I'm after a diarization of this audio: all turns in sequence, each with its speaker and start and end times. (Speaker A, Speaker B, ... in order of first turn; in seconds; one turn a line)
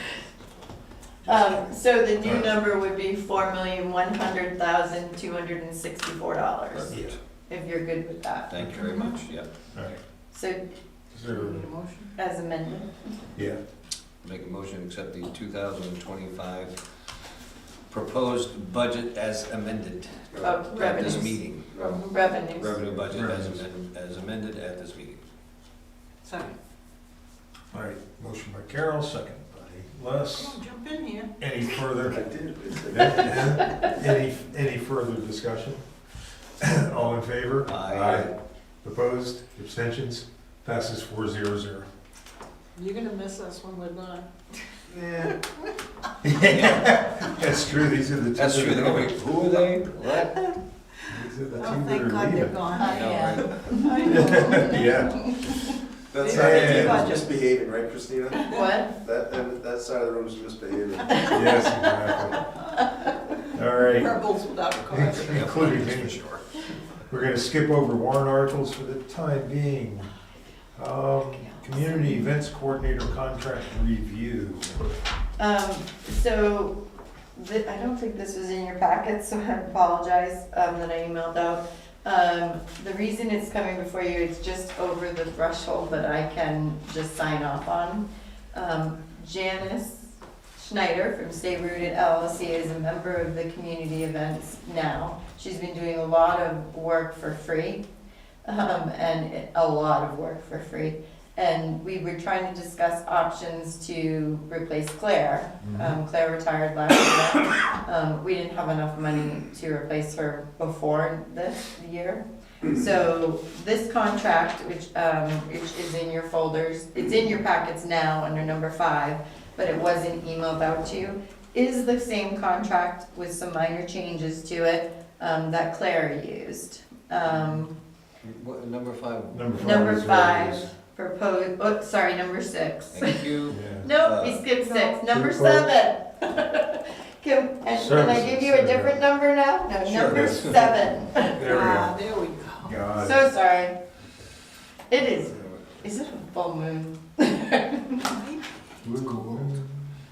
Speaker A: 1.2-6.9
Speaker B: 2.2-2.5
Speaker C: 6.7-7.1
Speaker B: 6.9-7.1
Speaker A: 7.5-8.5
Speaker C: 8.5-9.5
Speaker D: 8.8-9.1
Speaker B: 9.7-10.0
Speaker A: 10.3-10.7
Speaker B: 11.1-11.7
Speaker D: 11.3-12.1
Speaker A: 12.2-13.1
Speaker C: 14.2-16.7
Speaker C: 17.9-21.8
Speaker E: 20.3-20.6
Speaker A: 20.4-21.4
Speaker D: 20.7-21.2
Speaker E: 21.7-22.0
Speaker D: 21.8-22.5
Speaker A: 22.0-22.7
Speaker C: 22.6-25.2
Speaker B: 23.1-23.6
Speaker D: 26.2-26.5
Speaker B: 27.7-30.6
Speaker D: 30.3-31.3
Speaker B: 31.4-32.2
Speaker E: 32.1-33.5
Speaker B: 32.9-35.8
Speaker B: 36.6-38.3
Speaker C: 37.7-38.3
Speaker B: 38.8-41.9
Speaker D: 42.8-44.3
Speaker B: 44.9-45.3
Speaker B: 46.2-49.6
Speaker C: 46.5-46.8
Speaker C: 48.3-50.5
Speaker B: 51.1-52.6
Speaker D: 51.5-55.4
Speaker A: 52.8-54.2
Speaker C: 52.8-53.7
Speaker B: 54.0-55.5
Speaker E: 56.1-61.6
Speaker D: 56.2-57.2
Speaker B: 56.3-57.1
Speaker A: 58.4-58.9
Speaker A: 61.1-62.2
Speaker B: 61.3-62.5
Speaker B: 63.5-64.2
Speaker D: 63.8-65.8
Speaker B: 64.9-66.2
Speaker C: 65.2-66.4
Speaker B: 67.1-70.1
Speaker B: 70.8-74.7
Speaker A: 75.4-76.8
Speaker A: 77.3-97.8
Speaker A: 98.4-127.8
Speaker B: 105.6-105.9
Speaker C: 128.2-129.8
Speaker B: 129.3-130.7
Speaker A: 129.6-141.6
Speaker C: 132.9-134.4
Speaker B: 133.5-133.9
Speaker D: 134.6-135.0
Speaker B: 135.1-135.7
Speaker B: 137.7-139.0
Speaker C: 139.8-140.5
Speaker B: 139.9-140.7
Speaker B: 141.3-142.0
Speaker D: 141.4-142.8
Speaker B: 142.6-143.2
Speaker A: 143.0-143.8
Speaker A: 144.9-148.1
Speaker D: 148.0-148.4
Speaker B: 148.8-149.7
Speaker C: 149.1-149.5